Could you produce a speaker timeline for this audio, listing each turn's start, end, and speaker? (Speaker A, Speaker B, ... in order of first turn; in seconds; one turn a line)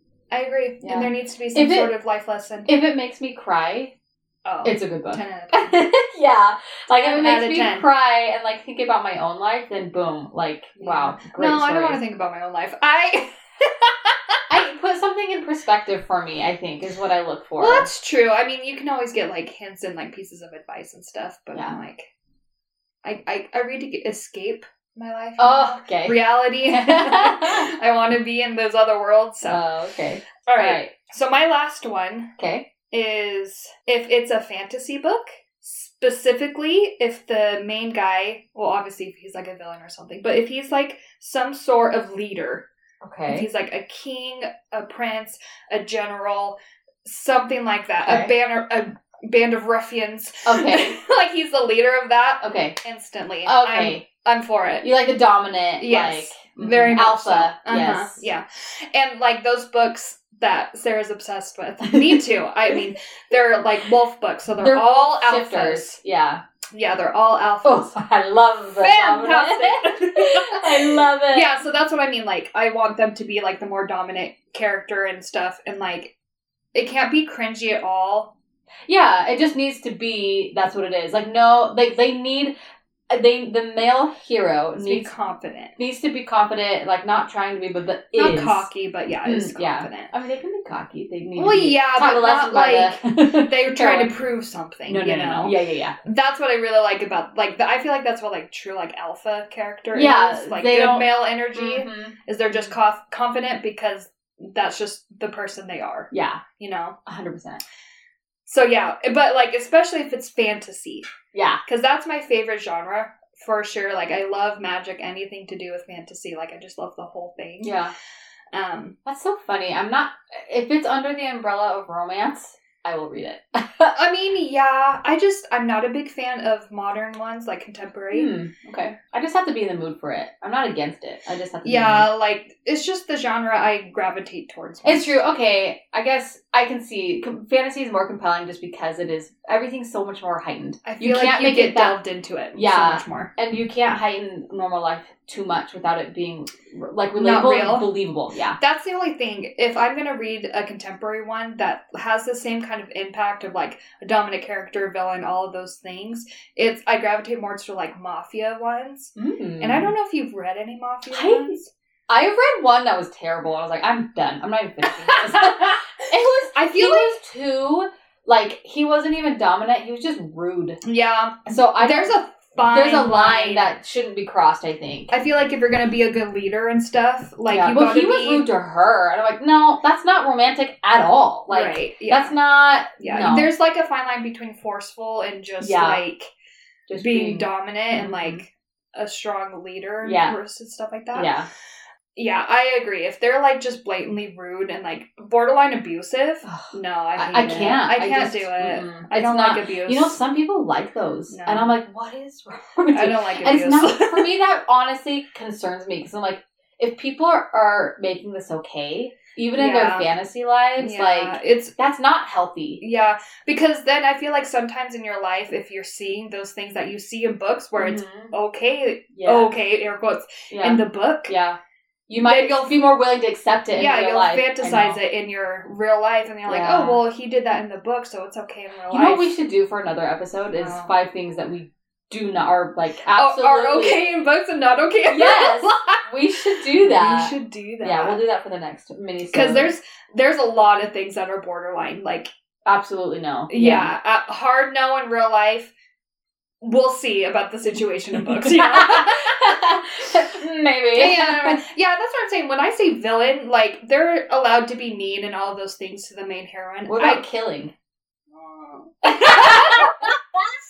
Speaker A: 0.3-2.7
Speaker B: 0.8-1.9
Speaker B: 2.7-3.9
Speaker A: 4.5-5.8
Speaker B: 4.6-12.0
Speaker A: 6.9-7.8
Speaker A: 10.8-14.3
Speaker B: 14.5-17.9
Speaker A: 17.6-22.1
Speaker A: 23.0-29.6
Speaker B: 25.4-27.7
Speaker B: 29.4-30.9
Speaker A: 30.5-32.3
Speaker B: 32.4-32.7
Speaker A: 32.9-42.7
Speaker B: 43.0-43.5
Speaker A: 43.3-54.9
Speaker B: 48.0-48.3
Speaker B: 50.4-51.0
Speaker B: 52.4-52.8
Speaker B: 53.4-54.0
Speaker B: 54.8-58.3
Speaker A: 55.8-66.0
Speaker B: 61.9-62.2
Speaker B: 64.6-66.4
Speaker A: 66.7-67.9
Speaker B: 67.6-71.5
Speaker A: 68.8-76.1
Speaker A: 76.7-78.3
Speaker B: 78.9-82.5
Speaker B: 83.1-85.1
Speaker A: 84.8-85.8
Speaker B: 85.8-88.7
Speaker A: 88.2-90.1
Speaker B: 89.2-94.1
Speaker A: 91.3-107.0
Speaker B: 94.9-96.0
Speaker B: 99.9-102.7
Speaker B: 106.1-106.4
Speaker B: 107.0-107.6
Speaker A: 108.5-111.1
Speaker B: 111.3-111.6
Speaker A: 111.7-117.7
Speaker B: 117.6-117.9
Speaker A: 118.5-118.9
Speaker B: 119.0-123.9
Speaker A: 123.9-128.3
Speaker B: 128.1-132.1
Speaker A: 131.6-135.2
Speaker B: 134.8-142.0
Speaker A: 140.8-143.3
Speaker B: 142.5-148.6
Speaker A: 147.1-147.9
Speaker A: 148.6-161.7
Speaker B: 159.2-159.9
Speaker B: 161.1-161.5
Speaker B: 162.1-170.8
Speaker A: 164.9-165.8
Speaker A: 166.5-167.2
Speaker A: 170.8-173.7
Speaker B: 171.4-172.2
Speaker B: 172.7-175.1
Speaker A: 175.1-178.4
Speaker B: 177.5-183.5
Speaker A: 181.5-182.3
Speaker A: 183.0-186.3
Speaker B: 185.6-186.0
Speaker B: 186.9-188.4
Speaker A: 187.0-191.3
Speaker B: 190.0-190.4
Speaker B: 191.1-191.5
Speaker A: 192.1-200.2
Speaker B: 196.4-212.8
Speaker A: 201.3-201.7
Speaker A: 202.9-204.3
Speaker A: 209.6-210.1
Speaker A: 210.8-211.8
Speaker A: 212.8-221.3
Speaker B: 217.8-218.3
Speaker B: 219.1-219.5
Speaker B: 220.5-225.0
Speaker A: 222.2-222.9
Speaker A: 223.7-229.3
Speaker B: 226.4-227.0
Speaker B: 228.9-234.1
Speaker A: 230.6-230.9
Speaker A: 233.1-236.0
Speaker B: 235.1-239.7
Speaker A: 236.6-238.2
Speaker A: 239.3-242.3
Speaker B: 242.7-243.9
Speaker A: 243.5-245.7
Speaker A: 246.6-249.3
Speaker B: 248.3-251.6
Speaker A: 250.9-257.2
Speaker B: 256.9-257.7
Speaker A: 258.3-260.1
Speaker B: 259.0-260.4